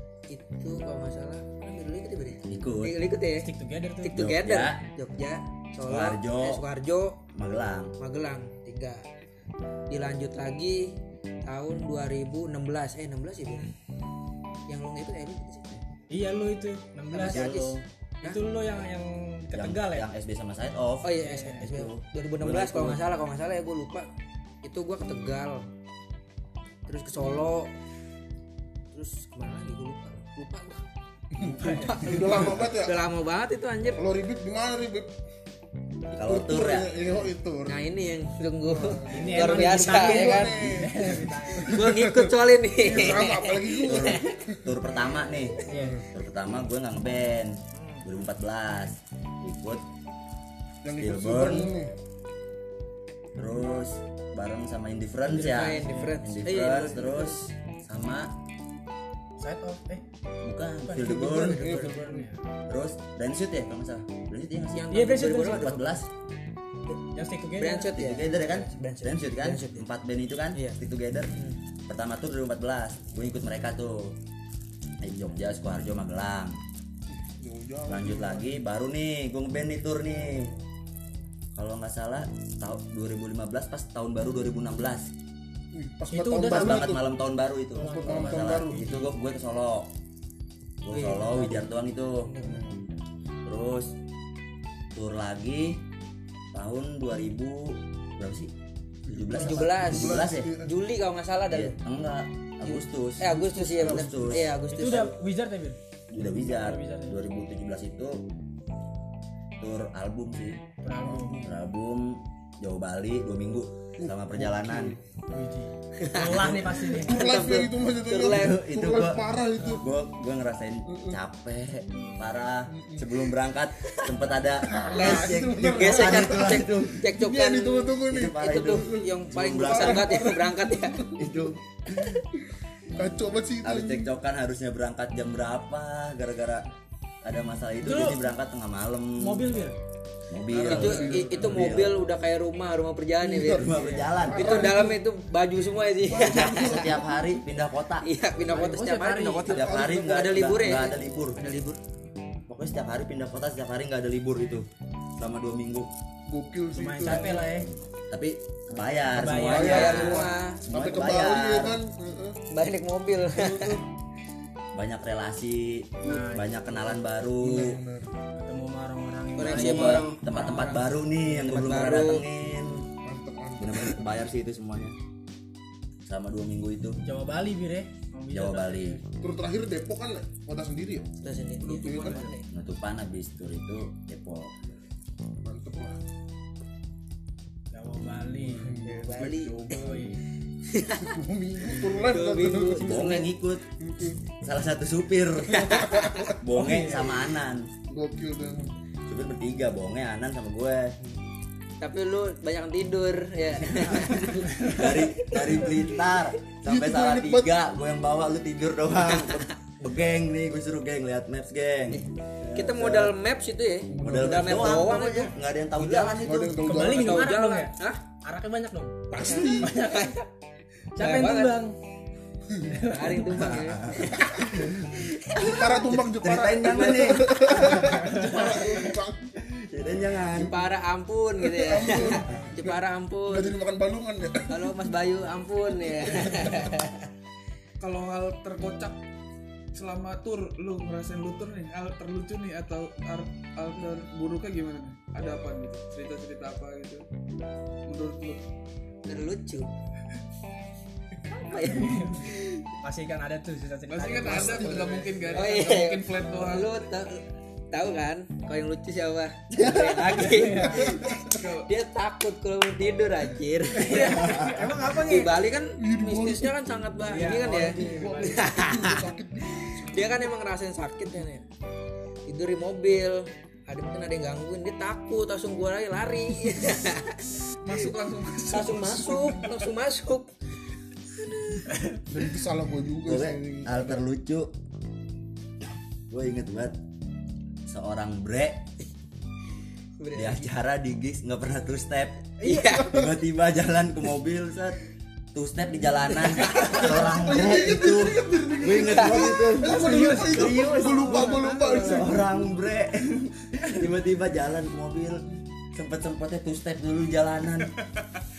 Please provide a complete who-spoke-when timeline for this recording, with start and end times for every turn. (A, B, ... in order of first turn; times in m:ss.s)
0:00.3-0:03.5 A
0:02.4-0:02.9 B
0:03.4-0:04.2 C
0:04.0-0:07.2 A
0:04.1-0:04.8 B
0:05.9-0:06.6 B
0:07.3-0:07.9 B
0:08.0-0:09.0 A
0:09.9-0:10.9 A
0:11.4-0:13.7 A
0:14.7-0:15.7 A
0:16.1-0:17.5 C
0:17.1-0:18.4 A
0:17.2-0:17.8 B
0:18.2-0:20.1 C
0:19.5-0:23.0 B
0:21.0-0:24.1 A
0:21.2-0:21.6 C
0:24.6-0:25.7 A
0:26.9-0:27.7 A
0:28.9-0:30.8 A
0:31.3-0:33.0 D
0:31.5-0:32.4 C
0:31.6-0:34.0 A
0:34.0-0:35.1 D
0:36.1-0:36.9 B
0:36.2-0:37.8 D
0:37.6-0:40.8 A
0:38.6-0:44.7 D
0:39.1-0:41.8 C
0:41.6-0:44.3 A
0:43.8-0:45.6 B
0:45.7-0:46.0 C
0:45.7-0:46.0 D
0:46.1-0:49.8 B
0:47.7-0:48.0 C
0:50.8-0:51.9 D
0:51.0-0:51.7 B
0:53.3-0:58.3 B
0:55.3-0:57.4 A
0:55.8-0:56.2 C
0:59.4-1:00.0 C
1:00.4-1:01.8 B
1:00.8-1:02.4 C
1:01.2-1:02.3 D
1:02.7-1:06.1 B
1:04.7-1:06.0 A
1:04.9-1:05.8 C
1:07.1-1:08.0 C
1:07.6-1:09.9 A
1:07.9-1:11.3 B
1:10.5-1:10.8 A
1:11.9-1:14.2 B
1:15.0-1:16.6 B
1:17.1-1:18.6 D
1:17.9-1:20.5 B
1:21.5-1:25.1 B
1:25.7-1:27.0 D
1:26.1-1:26.9 C
1:26.4-1:29.9 B
1:27.7-1:29.1 C
1:27.8-1:28.9 D
1:30.8-1:32.3 B
1:30.9-1:31.7 A
1:32.2-1:32.7 A
1:32.4-1:32.8 D
1:33.4-1:33.9 B
1:34.9-1:35.8 B
1:36.5-1:38.5 B
1:39.1-1:40.7 D
1:39.1-1:40.5 B
1:39.3-1:41.8 A
1:41.5-1:44.6 B
1:42.6-1:45.1 A
1:43.8-1:44.2 D
1:44.7-1:45.8 C
1:46.1-1:48.2 B
1:46.5-1:47.2 C
1:49.6-1:50.6 B
1:50.8-1:51.4 C
1:51.0-1:51.5 D
1:51.4-1:55.0 B
1:54.0-1:55.0 D
1:55.3-1:57.4 C
1:56.0-1:58.6 A
1:56.3-1:56.6 B
1:56.9-1:59.9 D
1:58.2-2:07.0 B
2:00.9-2:01.2 D
2:02.7-2:03.2 D
2:04.6-2:11.4 D
2:04.9-2:11.0 A
2:08.0-2:10.2 B
2:11.2-2:12.2 B
2:13.0-2:14.1 D
2:13.6-2:16.7 B
2:17.2-2:19.5 B
2:17.8-2:18.2 C
2:19.2-2:19.8 C
2:20.3-2:22.0 B
2:20.5-2:21.5 E
2:20.6-2:21.8 D
2:20.6-2:23.7 A
2:23.2-2:25.0 D
2:23.4-2:24.8 B
2:24.3-2:27.0 A
2:26.1-2:27.1 D
2:26.2-2:28.1 B
2:28.0-2:31.8 A
2:28.4-2:29.6 C
2:29.5-2:31.4 B
2:29.6-2:30.0 D
2:32.5-2:34.7 B
2:35.2-2:35.9 B
2:36.3-2:37.5 D
2:36.7-2:37.7 C
2:37.0-2:41.8 B
2:39.1-2:40.3 C
2:39.4-2:42.4 D
2:39.5-2:40.6 A
2:42.5-2:43.8 A
2:43.4-2:43.8 D
2:44.7-2:47.8 B
2:46.0-2:46.9 C
2:47.4-2:48.1 D
2:48.4-2:50.7 C
2:49.4-2:52.2 A
2:49.5-2:52.8 B
2:53.0-2:54.1 D
2:53.6-2:54.9 B
2:56.0-2:57.0 B
2:57.0-2:59.0 C
2:58.3-2:59.0 B
2:59.2-3:02.3 D
3:01.2-3:02.4 A
3:02.5-3:04.5 B
3:05.4-3:06.0 D
3:07.7-3:08.8 C
3:08.4-3:10.2 D
3:08.8-3:09.8 A
3:09.7-3:10.2 C
3:10.7-3:11.2 A
3:11.0-3:13.1 D
3:11.7-3:12.2 C
3:11.7-3:13.3 A
3:12.7-3:13.6 B
3:13.8-3:14.2 D
3:14.4-3:17.7 B
3:15.6-3:16.1 A
3:15.6-3:16.4 D
3:16.5-3:17.2 C
3:17.9-3:18.7 D
3:19.1-3:20.9 B
3:21.8-3:25.4 A
3:23.6-3:33.1 B
3:24.5-3:25.0 C
3:26.6-3:27.5 D
3:32.5-3:38.0 A
3:33.9-3:34.9 D
3:34.0-3:36.7 B
3:36.2-3:37.3 D
3:36.6-3:40.2 C
3:39.1-3:40.2 A
3:39.1-3:39.7 D
3:41.0-3:41.7 C
3:41.0-3:41.6 A
3:42.5-3:42.7 D
3:42.7-3:43.6 C
3:42.8-3:45.7 A
3:43.7-3:45.0 B
3:44.1-3:44.7 D
3:45.3-3:49.3 D
3:45.9-3:48.5 B
3:49.4-3:50.5 B
3:50.4-3:53.5 A
3:51.4-3:54.8 D
3:54.5-3:57.0 A
3:56.0-3:56.6 D
3:57.8-3:59.0 E
3:59.7-4:07.0 E
4:07.8-4:08.4 E
4:09.1-4:09.7 A
4:11.3-4:12.6 A
4:11.5-4:15.4 C
4:13.9-4:16.8 E
4:15.3-4:29.0 A
4:20.0-4:21.0 C
4:20.6-4:21.2 D
4:21.2-4:21.7 E
4:23.7-4:25.4 C
4:25.8-4:26.5 D
4:27.1-4:28.4 C
4:27.2-4:30.3 D
4:29.6-4:31.4 A
4:32.3-4:37.7 A
4:37.6-4:39.5 E
4:38.5-4:40.3 A
4:41.7-4:42.0 C
4:42.1-4:44.0 D
4:43.0-4:44.5 B
4:46.1-4:46.8 B
4:47.6-4:48.6 B
4:50.0-4:50.5 A
4:50.1-4:54.8 B
4:52.4-4:53.0 A
4:52.5-4:53.0 D
4:55.3-5:07.7 B
4:56.4-4:56.8 A
4:56.5-5:02.4 D
4:58.7-4:59.3 A
4:59.6-5:02.1 C